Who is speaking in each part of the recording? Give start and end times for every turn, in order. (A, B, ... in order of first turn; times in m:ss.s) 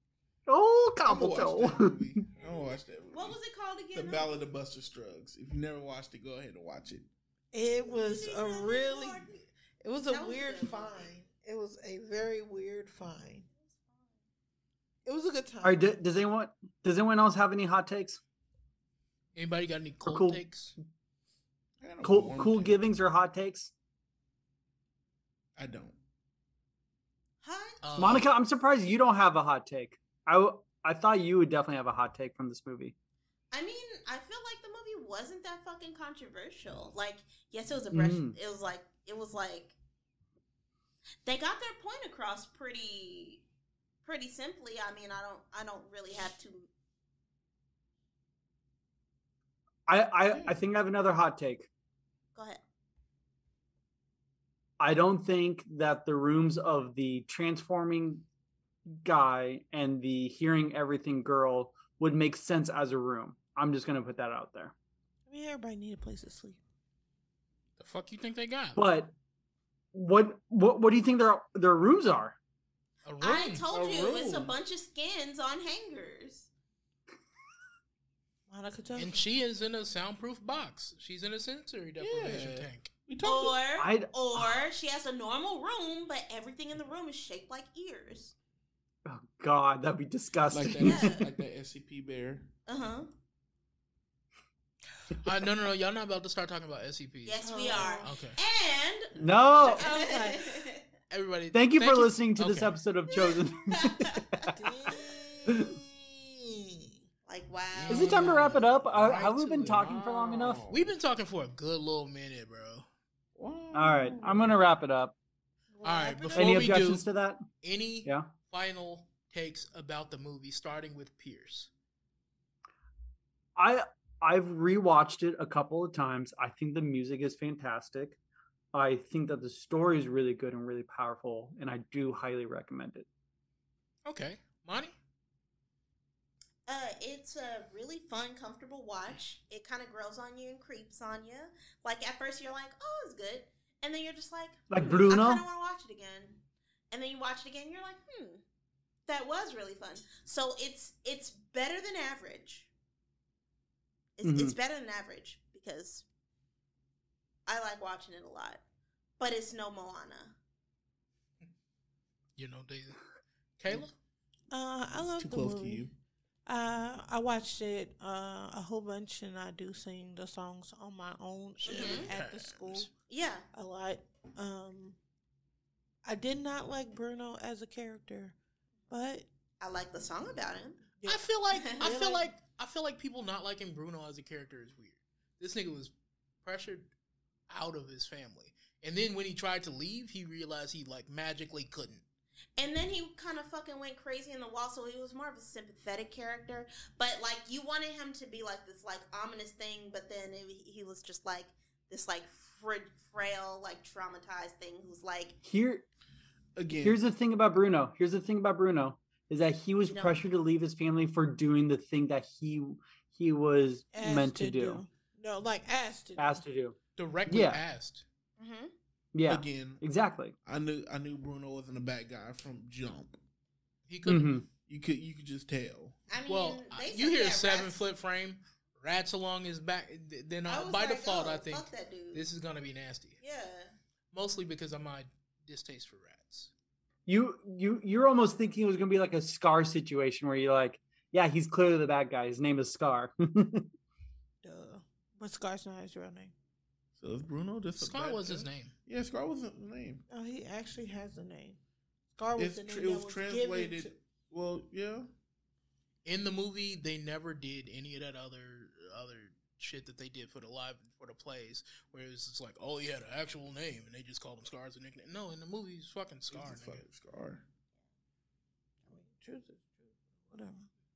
0:00.5-0:02.0 A
0:01.0-0:03.4 B
0:03.1-0:04.4 C
0:03.9-0:07.1 B
0:07.5-0:13.5 D
0:07.8-0:09.4 C
0:10.1-0:11.1 C
0:13.6-0:14.1 C
0:15.0-0:15.9 D
0:15.6-0:18.2 A
0:19.4-0:20.7 E
0:20.1-0:20.4 A
0:21.8-0:22.8 B
0:22.0-0:23.7 A
0:25.6-0:26.0 B
0:27.4-0:28.2 C
0:27.8-0:28.3 E
0:28.0-0:32.9 A
0:33.5-0:39.7 C
0:37.9-0:38.4 A
0:41.2-0:43.4 C
0:44.0-0:46.7 C
0:49.9-0:51.7 A
0:50.3-0:50.6 B
0:52.4-0:52.6 C
0:54.8-0:58.2 A
0:59.0-1:04.7 A
1:05.3-1:06.6 D
1:07.8-1:08.8 E
1:08.8-1:09.1 A
1:09.9-1:12.4 A
1:13.0-1:14.3 E
1:13.2-1:16.5 C
1:13.7-1:14.5 B
1:18.5-1:19.2 D
1:19.0-1:22.9 E
1:22.0-1:23.6 B
1:23.2-1:28.3 C
1:23.8-1:24.6 A
1:29.1-1:31.2 A
1:30.5-1:32.5 B
1:30.8-1:31.3 C
1:32.7-1:33.1 C
1:35.2-1:37.4 E
1:37.2-1:40.9 C
1:37.4-1:38.1 D
1:38.0-1:38.4 E
1:39.2-1:39.9 A
1:39.8-1:40.6 D
1:41.1-1:42.8 E
1:41.5-1:44.5 A
1:43.2-1:45.1 C
1:44.5-1:47.0 D
1:45.5-1:45.7 A
1:47.3-1:48.4 C
1:47.7-1:50.0 E
1:47.9-1:50.6 A
1:49.6-1:50.9 B
1:50.7-1:52.9 E
1:53.4-1:54.6 B
1:53.7-1:55.1 A
1:55.7-1:56.8 D
1:55.8-1:57.1 E
1:56.4-1:57.4 A
1:57.6-2:01.7 E
1:58.0-1:58.3 A
2:03.6-2:08.2 A
2:08.7-2:13.1 A
2:14.1-2:14.9 E
2:16.7-2:26.4 C
2:24.7-2:25.4 A
2:26.9-2:28.4 C
2:29.1-2:32.7 C
2:34.2-2:36.0 C
2:34.2-2:34.6 A
2:37.5-2:38.6 C
2:39.2-2:40.4 C
2:42.4-2:43.0 E
2:43.6-2:43.9 E
2:44.5-2:45.8 D
2:45.2-2:45.9 B
2:46.5-2:52.9 D
2:51.6-2:52.9 E
2:51.6-2:52.1 C
2:53.1-2:53.5 C
2:53.5-2:55.0 D
2:56.0-2:58.4 D
2:58.9-2:59.3 D
2:59.6-3:00.9 C
3:01.0-3:02.3 D
3:01.1-3:05.9 E
3:01.5-3:01.8 C
3:06.4-3:06.9 E
3:07.5-3:12.0 E
3:12.6-3:25.4 C
3:25.4-3:25.8 A
3:26.6-3:27.0 B
3:26.8-3:34.8 A
3:29.8-3:30.2 C
3:33.9-3:36.4 D
3:36.2-3:37.6 A
3:37.0-3:38.0 E
3:38.4-3:38.7 C
3:39.1-3:40.4 A
3:39.3-3:39.8 B
3:40.4-3:43.2 B
3:43.9-3:44.4 E
3:44.1-3:44.5 A
3:44.7-3:46.0 B
3:46.1-3:47.8 C
3:46.3-3:53.2 E
3:50.5-3:52.3 C
3:53.2-3:53.7 C
3:54.1-3:56.5 E
3:57.1-4:03.7 A
4:04.4-4:06.3 D
4:07.0-4:10.0 B
4:07.8-4:08.7 E
4:10.1-4:11.6 D
4:12.2-4:13.9 D
4:12.4-4:15.1 B
4:16.0-4:26.8 E
4:26.3-4:27.4 B
4:28.9-4:30.7 D